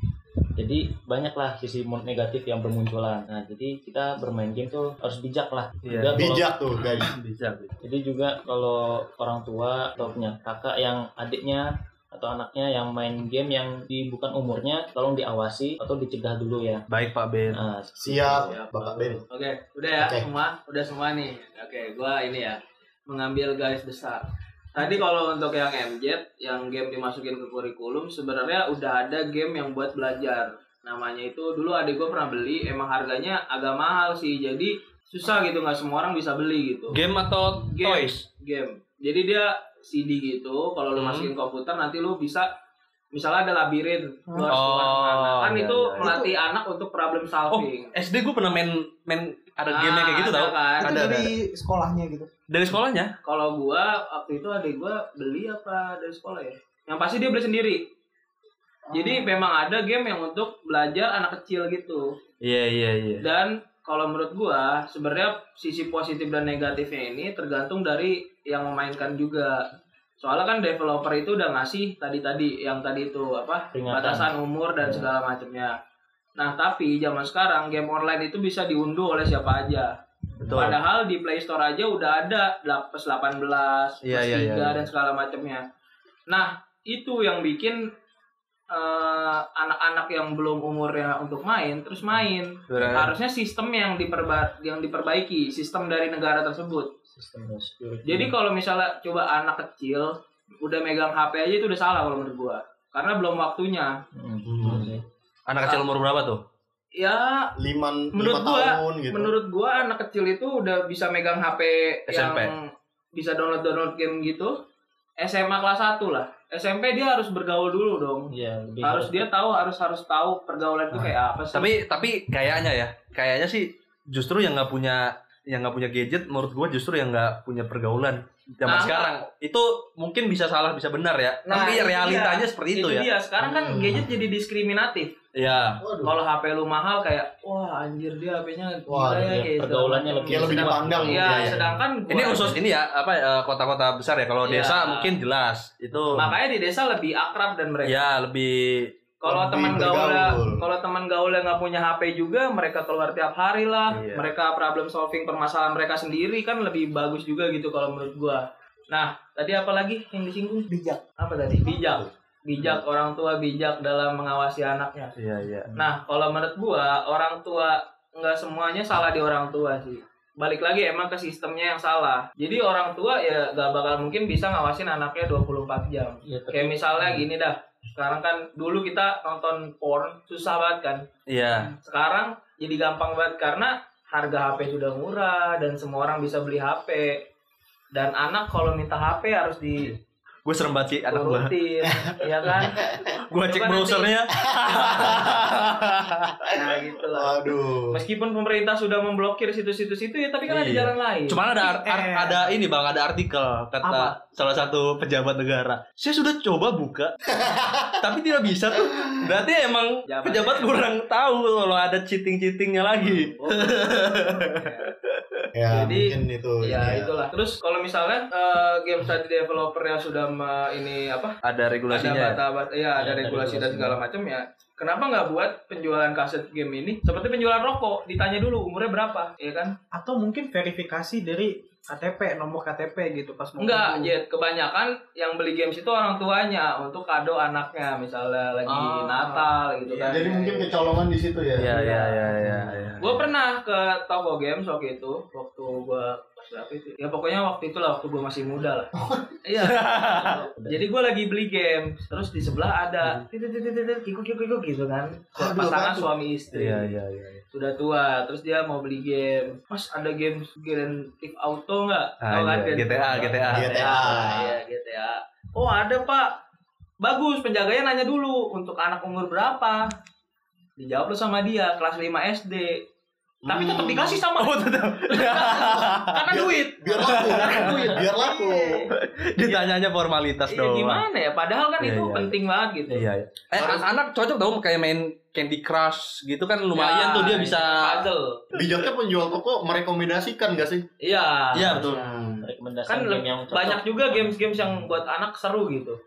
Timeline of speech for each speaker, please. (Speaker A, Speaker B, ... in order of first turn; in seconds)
Speaker A: 0.6-6.5, 7.8-16.8, 17.5-19.1, 73.7-75.1, 80.3-80.8, 97.1-98.3, 104.2-105.0, 118.3-119.3, 139.2-141.3, 165.7-165.9, 176.2-177.3, 223.0-224.0, 242.5-242.9, 250.6-250.8, 292.4-294.6
Speaker B: 5.9-7.8, 16.9-17.6, 36.9-38.2, 41.0-41.3, 44.5-46.2, 47.5-51.3, 52.5-53.1, 62.4-63.2, 80.4-80.8, 84.0-84.9, 92.7-93.1, 104.5-104.9, 105.5-106.4, 112.1-112.5, 120.9-133.1, 135.3-135.8, 141.3-141.6, 142.1-146.3, 147.9-148.9, 153.9-154.3, 165.2-165.7, 181.3-181.8, 190.5-196.5, 200.5-207.2, 208.0-215.4, 221.4-222.4, 241.6-243.2, 249.6-250.4, 256.5-257.4, 262.2-264.1, 274.2-276.1, 277.0-277.8, 278.9-281.0, 281.8-282.4, 282.9-288.1, 291.5-292.4
Speaker C: 6.2-7.1, 18.0-19.2, 20.0-20.3, 107.6-109.3, 133.4-134.2, 135.8-136.2, 138.9-139.4, 140.3-141.8, 149.2-150.7, 194.5-195.4, 197.1-198.0, 207.3-208.0, 215.6-217.3, 240.1-241.7, 248.9-249.3, 255.4-256.1, 263.5-264.6, 273.4-274.2, 275.9-278.9, 283.6-283.9, 288.5-290.9, 291.8-292.4
Speaker D: 18.4-24.2, 24.8-37.0, 37.6-42.5, 43.1-47.9, 49.7-51.2, 53.2-57.8, 58.9-62.1, 63.2-69.6, 70.2-75.7, 76.4-79.9, 80.5-85.6, 86.3-87.8, 88.7-96.9, 98.0-103.9, 107.0-107.5, 108.1-112.6, 113.2-114.6, 115.2-118.3, 118.8-121.7, 128.7-129.1, 131.5-135.1, 136.0-142.6, 144.5-145.1, 146.2-147.9, 149.2-165.1, 165.7-181.1, 181.8-187.2, 187.9-189.9, 191.1-194.1, 196.5-201.4, 210.1-210.8, 213.0-214.9, 215.7-221.4, 221.9-229.8, 233.6-240.7, 241.6-242.4, 243.0-248.9, 249.4-257.0, 257.5-266.4, 267.0-269.9, 270.8-272.8, 273.4-279.7, 280.5-283.1, 286.8-288.5, 291.0-291.9, 292.9-296.0
Speaker E: 24.8-25.0, 44.3-44.6, 46.0-46.4, 50.8-52.3, 58.9-59.4, 160.7-161.0, 201.6-202.5, 203.8-204.2, 229.9-234.1, 238.7-240.2